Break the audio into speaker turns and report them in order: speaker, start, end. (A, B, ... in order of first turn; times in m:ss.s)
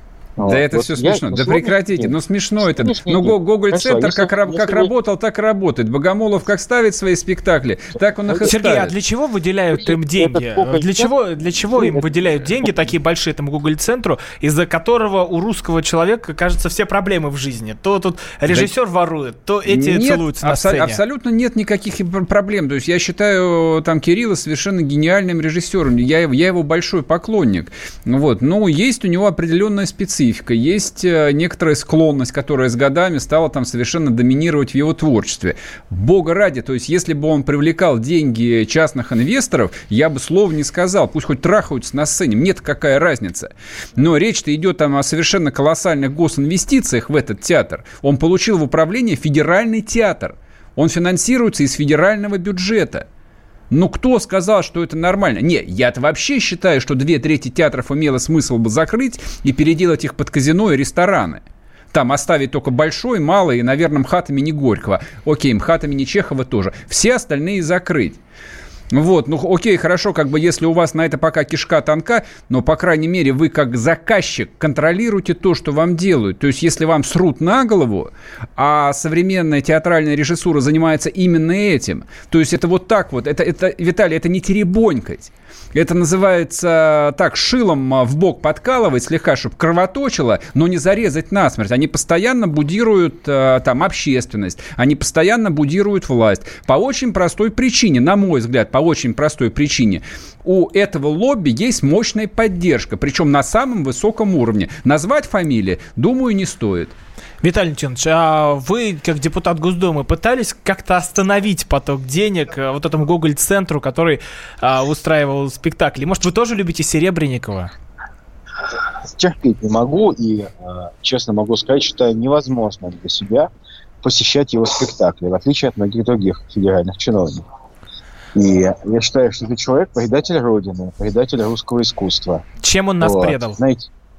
0:00.4-0:04.9 A
0:00.4-0:08.9 B
0:08.3-0:08.5 A
0:08.4-0:21.0 C
0:09.8-0:11.1 A
0:11.7-0:12.7 A
0:19.7-0:53.0 B
0:53.7-1:08.2 B
1:08.9-1:46.9 B
1:47.4-1:57.7 C
1:59.1-2:03.5 A
2:04.0-2:07.4 A
2:08.3-2:12.4 A
2:12.6-2:13.6 C
2:13.0-2:13.9 A